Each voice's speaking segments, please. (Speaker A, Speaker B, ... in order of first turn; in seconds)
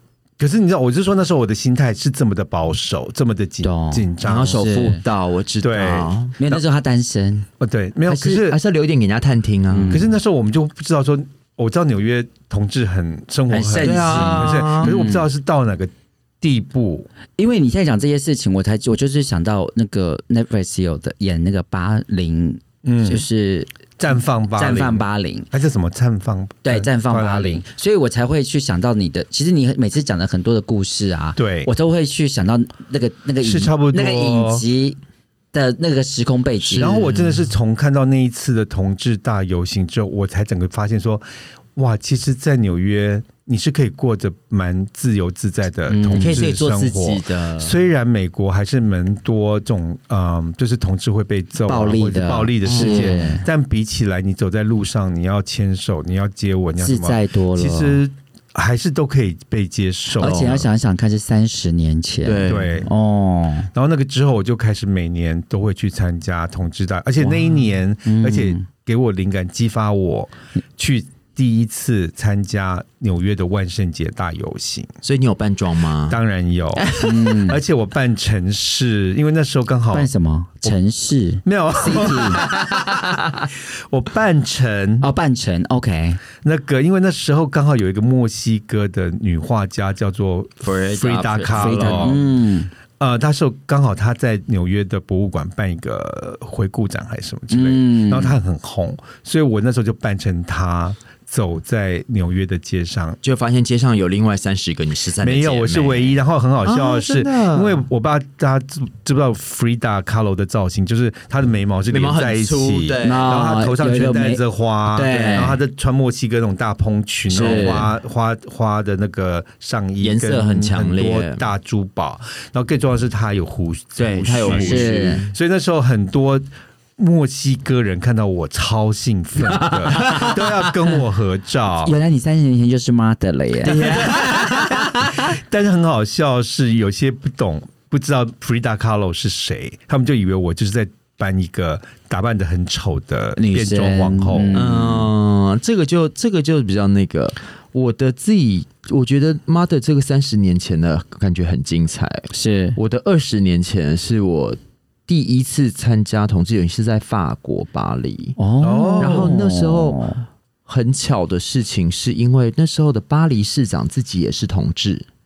Speaker A: 0.4-4.7, 5.6-6.6, 7.6-8.6, 9.9-17.1, 22.8-23.2, 24.0-27.6, 31.4-31.7, 33.4-34.6, 36.7-41.2, 41.8-60.6, 62.5-62.9, 63.7-74.9, 76.1-80.1, 81.5-83.0, 83.9-85.1, 86.4-92.2, 93.0-103.2, 105.2-132.0, 133.7-144.6, 158.6-159.3
Speaker B: 3.6-5.0, 6.4-7.5, 9.7-10.1, 13.5-15.3, 17.4-23.7, 24.6-25.5, 26.6-35.0, 35.5-37.0, 45.9-46.5, 51.6-53.5, 56.8-58.0, 60.2-63.7, 67.2-68.7, 77.0-77.6, 79.9-82.5, 85.0-86.2, 91.5-92.7, 97.5-98.4, 113.0-115.6, 117.3-117.9, 124.5-125.2, 131.8-134.2, 143.4-145.1, 152.3-152.8, 158.4-160.2
Speaker C: 4.2-6.3, 8.1-10.0, 13.8-14.9, 36.8-37.5, 46.1-47.8, 52.6-53.3, 60.2-60.6, 62.2-62.8, 75.0-76.2, 76.8-77.1, 82.4-83.4, 90.6-92.3, 103.2-107.8, 111.9-113.4, 115.1-115.4, 117.3-117.9, 120.0-121.4, 124.0-125.3, 129.5-130.7, 133.7-135.2, 144.5-158.4, 159.0-160.0, 160.7-165.1